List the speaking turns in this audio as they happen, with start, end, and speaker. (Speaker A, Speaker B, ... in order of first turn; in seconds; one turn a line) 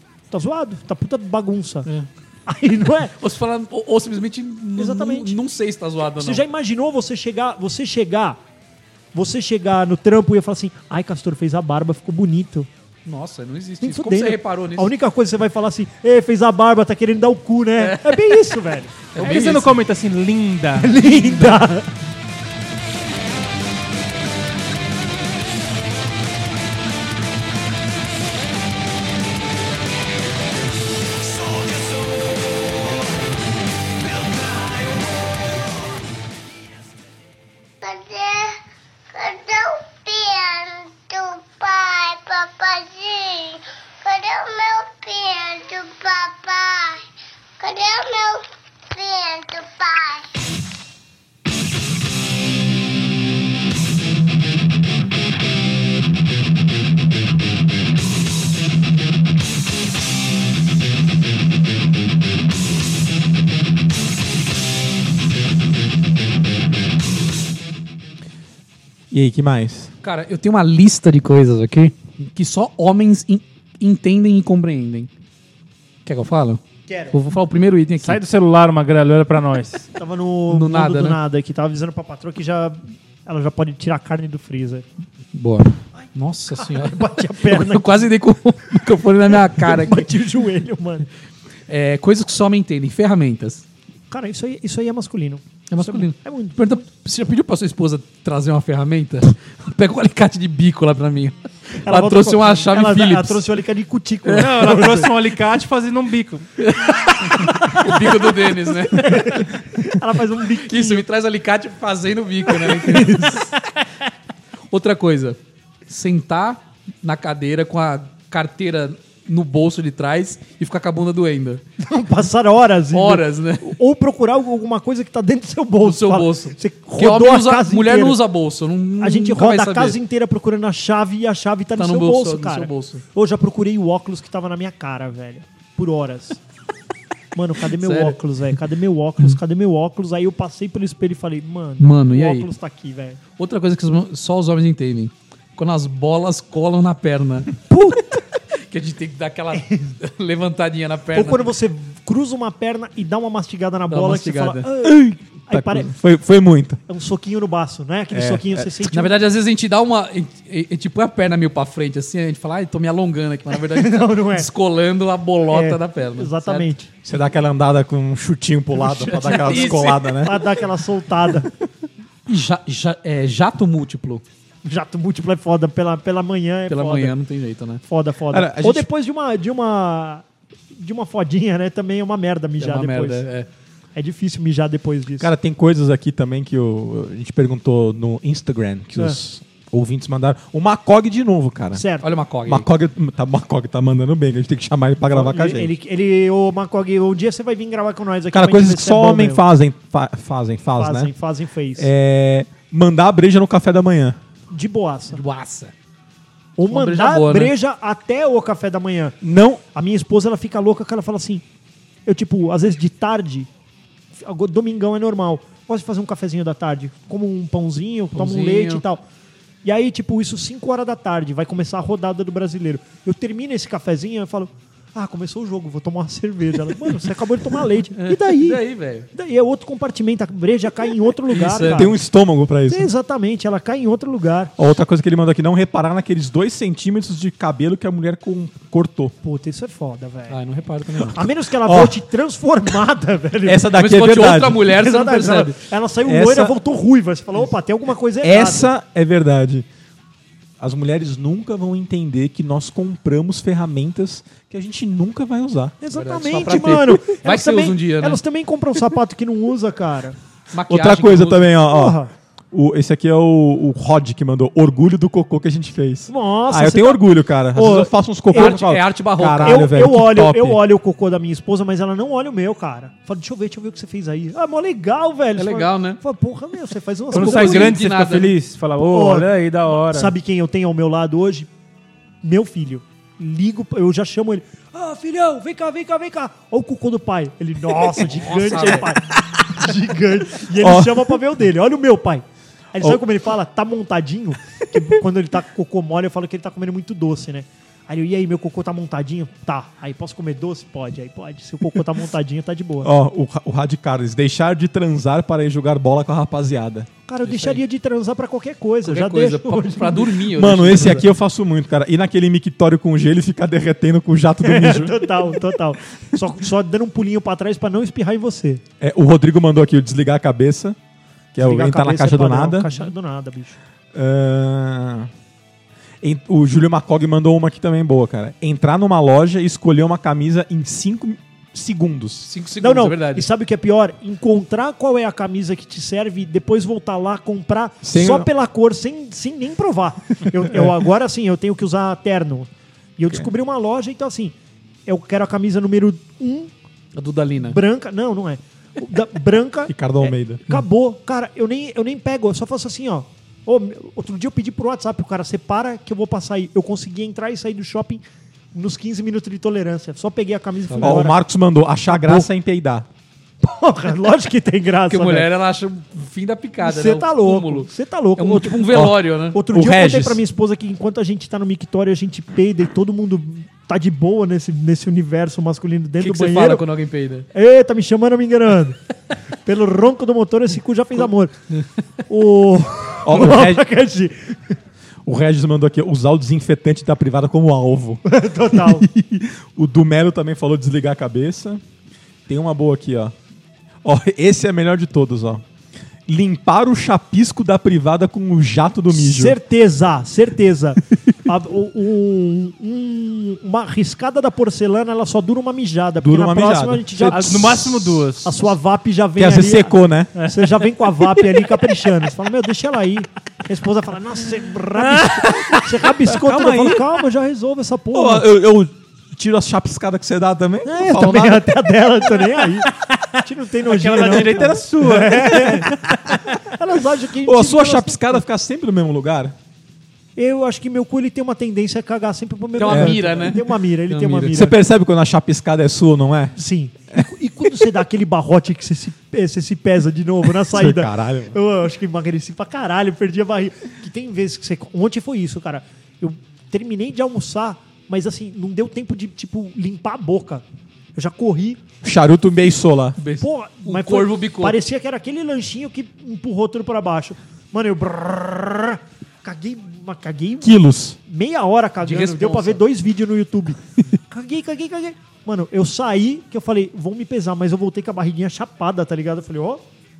Speaker A: 0.3-1.9
Speaker A: 2.5-3.1
Speaker B: 3.2-6.4
Speaker A: 4.8-5.4
Speaker A: 6.2-8.4
Speaker A: 9.1-12.7
Speaker B: 13.1-14.9
Speaker A: 13.8-19.3
Speaker B: 17.8-18.4
Speaker B: 19.1-19.7
Speaker C: 19.2-21.1
Speaker A: 20.8-21.9
Speaker D: 37.8-38.6
Speaker D: 39.1-47.0
Speaker D: 47.6-50.3
Speaker E: 69.1-69.9
Speaker B: 70.0-75.1
Speaker B: 76.1-78.2
Speaker A: 76.9-77.2
Speaker C: 78.0-79.9
Speaker A: 80.0-84.8
Speaker B: 80.5-81.2
Speaker B: 85.3-90.1
Speaker A: 86.0-88.1
Speaker A: 89.5-91.1
Speaker B: 91.7-93.7
Speaker A: 94.1-96.8
Speaker B: 95.7-101.3
Speaker A: 101.8-105.1
Speaker B: 101.9-103.5
Speaker C: 104.3-106.5
Speaker B: 106.6-109.5
Speaker A: 107.4-111.0
Speaker B: 110.6-113.5
Speaker A: 112.5-113.5
Speaker B: 114.7-121.6
Speaker A: 121.8-128.2
Speaker B: 122.9-123.8
Speaker B: 125.8-130.0
Speaker A: 129.0-136.4
Speaker B: 131.8-133.0
Speaker A: 137.3-143.2
Speaker B: 137.8-138.2
Speaker B: 141.8-142.5
Speaker B: 143.4-147.6
Speaker A: 147.7-148.2
Speaker B: 148.6-151.5
Speaker A: 149.5-149.9
Speaker A: 151.1-155.9
Speaker B: 153.9-154.7
Speaker E: 154.8-156.8
Speaker A: 156.9-159.1
Speaker E: 158.1-158.7
Speaker B: 158.9-166.7
Speaker A: 163.7-164.5
Speaker A: 165.5-166.9
Speaker E: 167.1-170.4
Speaker A: 168.9-171.5
Speaker B: 168.9-170.3
Speaker B: 172.3-174.2
Speaker A: 174.6-177.2
Speaker B: 176.7-177.8
Speaker A: 177.8-183.2
Speaker E: 178.3-178.9
Speaker B: 182.6-183.5
Speaker A: 184.0-185.3
Speaker E: 185.2-191.8
Speaker A: 191.7-192.1
Speaker B: 192.0-192.7
Speaker E: 192.5-195.7
Speaker A: 195.1-199.4
Speaker E: 198.3-201.1
Speaker A: 200.8-201.9
Speaker E: 201.8-204.2
Speaker A: 204.5-205.2
Speaker B: 205.1-205.7
Speaker A: 206.6-209.2
Speaker B: 206.7-207.5
Speaker E: 209.2-209.6
Speaker A: 209.7-211.4
Speaker A: 212.1-213.5
Speaker A: 214.2-219.0
Speaker B: 218.2-218.8
Speaker A: 219.6-232.0
Speaker B: 228.0-229.1
Speaker B: 231.3-231.9
Speaker E: 231.6-232.9
Speaker A: 232.7-234.5
Speaker E: 234.6-239.1
Speaker A: 239.2-240.4
Speaker B: 240.3-241.2
Speaker A: 241.1-243.7
Speaker E: 241.6-242.0
Speaker E: 243.4-244.6
Speaker B: 243.7-245.6
Speaker A: 244.7-248.7
Speaker E: 246.0-246.6
Speaker E: 248.2-249.7
Speaker E: 250.6-255.8
Speaker A: 255.8-260.2
Speaker B: 255.9-258.2
Speaker B: 260.5-261.5
Speaker E: 260.7-262.0
Speaker A: 261.7-262.1
Speaker E: 262.5-270.6
Speaker A: 266.1-268.6
Speaker B: 268.4-269.7
Speaker A: 269.4-277.8
Speaker B: 275.4-276.0
Speaker B: 277.1-278.3
Speaker C: 277.1-280.1
Speaker A: 278.8-279.3
Speaker A: 279.9-281.5
Speaker A: 282.2-302.9
Speaker B: 288.0-288.9
Speaker E: 290.6-291.2
Speaker E: 302.8-306.9
Speaker A: 307.1-310.2
Speaker B: 307.2-307.6
Speaker B: 308.8-311.1
Speaker E: 310.3-315.4
Speaker A: 314.4-318.6
Speaker E: 318.8-320.8
Speaker E: 321.3-322.7
Speaker A: 321.4-323.6
Speaker E: 323.9-325.1
Speaker E: 326.0-332.3
Speaker B: 332.2-333.3
Speaker A: 332.6-344.3
Speaker E: 337.8-338.3
Speaker A: 344.9-346.5
Speaker B: 346.9-347.6
Speaker A: 347.4-358.0
Speaker E: 349.7-350.4
Speaker A: 358.5-361.2
Speaker B: 360.7-361.0
Speaker E: 360.8-362.9
Speaker A: 361.9-362.3
Speaker A: 363.4-365.3
Speaker B: 364.9-369.4
Speaker A: 366.6-376.6
Speaker E: 369.5-370.2
Speaker B: 376.0-377.3
Speaker A: 377.3-378.8
Speaker A: 379.4-381.3
Speaker A: 382.1-384.4
Speaker E: 383.1-383.7
Speaker E: 385.1-391.6
Speaker A: 388.1-388.9
Speaker E: 392.3-393.1
Speaker E: 393.8-395.4
Speaker E: 396.1-399.4
Speaker A: 398.9-407.7
Speaker E: 406.0-408.1
Speaker C: 407.1-408.4
Speaker A: 408.2-418.3
Speaker E: 409.2-410.2
Speaker E: 415.4-417.0
Speaker E: 417.9-421.7
Speaker A: 420.6-428.2
Speaker C: 423.6-425.7
Speaker E: 423.9-426.2
Speaker E: 427.2-429.4
Speaker A: 430.2-434.6
Speaker B: 432.6-434.5
Speaker E: 432.7-433.0
Speaker E: 434.3-436.4
Speaker A: 436.4-450.4
Speaker E: 440.4-441.4
Speaker A: 450.9-451.6
Speaker E: 451.8-453.0
Speaker B: 453.0-454.6
Speaker A: 453.2-460.5
Speaker E: 460.4-461.0
Speaker A: 461.1-469.6
Speaker B: 461.8-462.6